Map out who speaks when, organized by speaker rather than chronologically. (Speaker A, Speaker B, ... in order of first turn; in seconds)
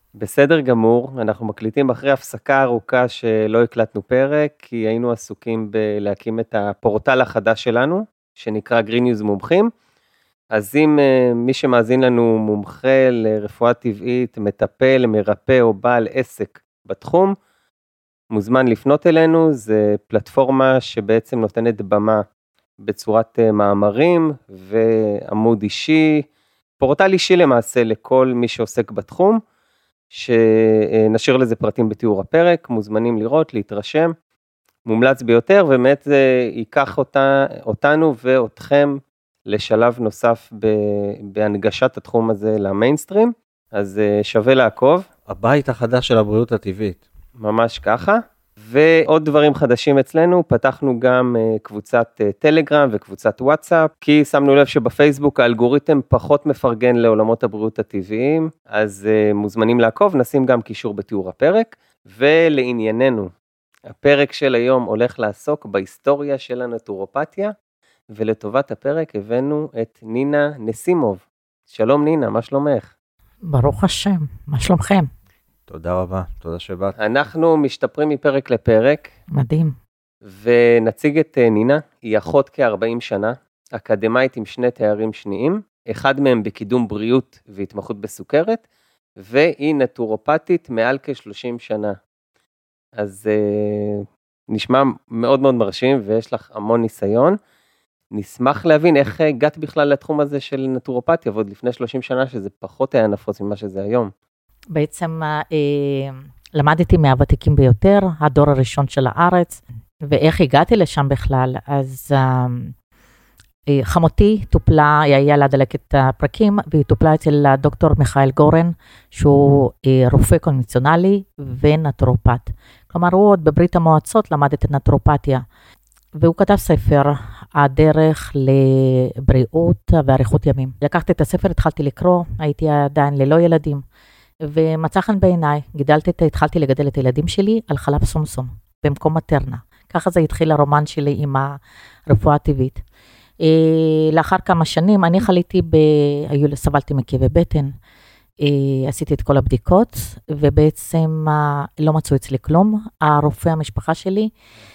Speaker A: 0.1-9.7, 10.5-17.3, 18.3-22.2, 22.8-26.2, 26.8-29.4, 30.1-34.1, 34.9-39.0, 39.5-45.0, 47.4-63.3, 63.9-67.5, 68.1-72.9, 77.0-79.1, 80.2-88.6, 89.2-92.0, 93.0-97.3, 98.1-104.1
Speaker B: 45.3-47.0, 75.7-77.0
Speaker C: 73.4-75.1, 79.3-79.8, 104.7-112.7, 113.7-125.4, 126.2-133.8, 134.4-142.8, 143.4-147.7, 148.4-154.3